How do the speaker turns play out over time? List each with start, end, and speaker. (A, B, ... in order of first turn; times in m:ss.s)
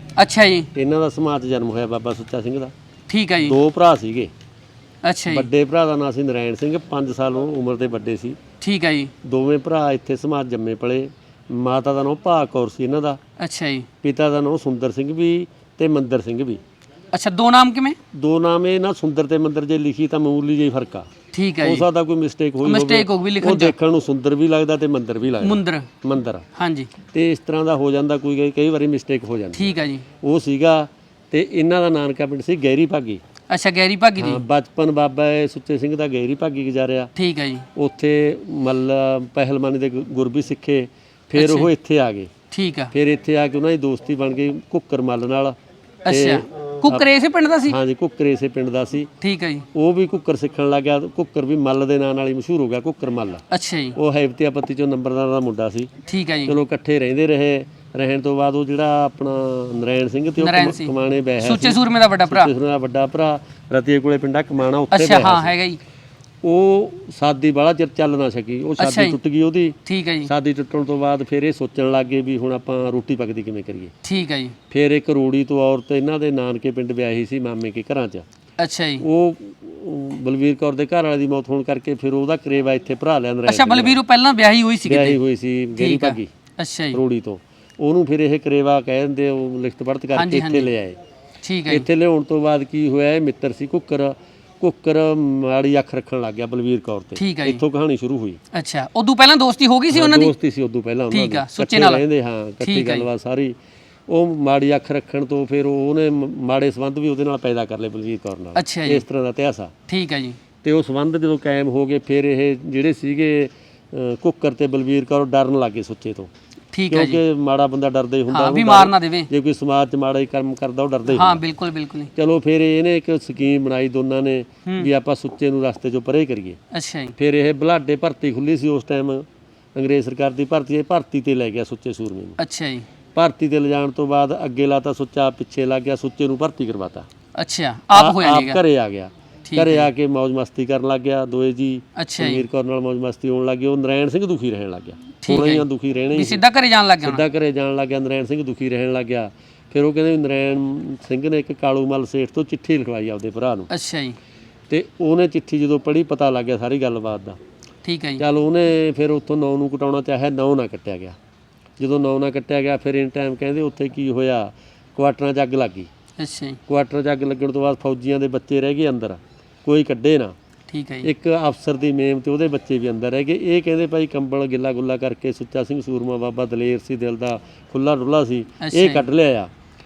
0:00.2-0:00.7 A
0:00.7-0:02.7 B
0:03.1-0:03.6 A
0:03.4-0:04.3 B
0:05.0-0:05.5 A
0:05.3-0:08.4 B
0:08.6-0:09.1 A
0:09.2-0:13.2 B
0:13.4-0:13.9 A
0:14.0-0:16.6 B
0:17.1-0:18.0 A
0:18.1-0:21.1 B
0:21.3-0:21.8 A
0:21.6-0:26.4 B
0:22.6-0:23.7 A
0:25.4-0:25.9 A
0:26.6-0:26.9 A
0:27.1-0:33.2 B
0:29.5-0:30.0 A
0:33.5-0:34.4 A
0:34.2-0:37.1 B
0:37.2-0:37.7 A
0:37.7-0:42.3 B
0:41.4-0:41.7 A
0:42.5-0:42.9 A
0:42.9-0:45.6 B
0:46.0-0:47.8 A
0:46.1-0:47.0 B
0:47.7-0:49.1 B
0:49.2-0:49.6 A
0:49.7-0:55.9 B
0:53.5-0:54.0 A
0:56.1-0:56.5 A
0:56.4-1:05.5 B
1:00.4-1:02.5 A
1:04.9-1:05.8 A
1:06.4-1:13.9 B
1:08.8-1:09.2 A
1:09.8-1:10.3 A
1:14.0-1:14.6 A
1:14.7-1:18.2 B
1:18.6-1:19.0 A
1:19.0-1:24.0 B
1:23.5-1:25.2 A
1:24.8-1:26.3 B
1:25.8-1:27.0 A
1:26.9-1:31.0 B
1:30.1-1:30.7 A
1:31.4-1:31.8 A
1:31.7-1:38.4 B
1:37.2-1:37.6 A
1:38.5-1:40.3 A
1:39.9-1:43.6 B
1:41.1-1:42.0 A
1:42.6-1:43.1 A
1:44.1-1:49.7 B
1:48.5-1:49.0 A
1:49.9-1:50.4 A
1:50.6-1:56.3 B
1:56.7-1:57.2 A
1:56.9-2:01.4 B
1:58.3-1:59.3 A
2:01.1-2:02.1 A
2:02.2-2:06.6 B
2:06.7-2:07.1 A
2:07.2-2:12.4 B
2:12.4-2:12.9 A
2:13.1-2:17.1 B
2:17.3-2:18.6 A
2:17.9-2:26.4 B
2:19.5-2:19.9 A
2:22.0-2:22.4 A
2:25.2-2:27.2 A
2:27.0-2:33.7 B
2:33.7-2:34.2 A
2:34.7-2:37.4 B
2:37.8-2:38.2 A
2:38.2-2:41.2 B
2:41.8-2:45.9 B
2:46.2-2:46.6 A
2:46.7-2:50.3 B
2:50.7-2:51.1 A
2:51.0-2:59.5 B
2:58.6-2:59.0 A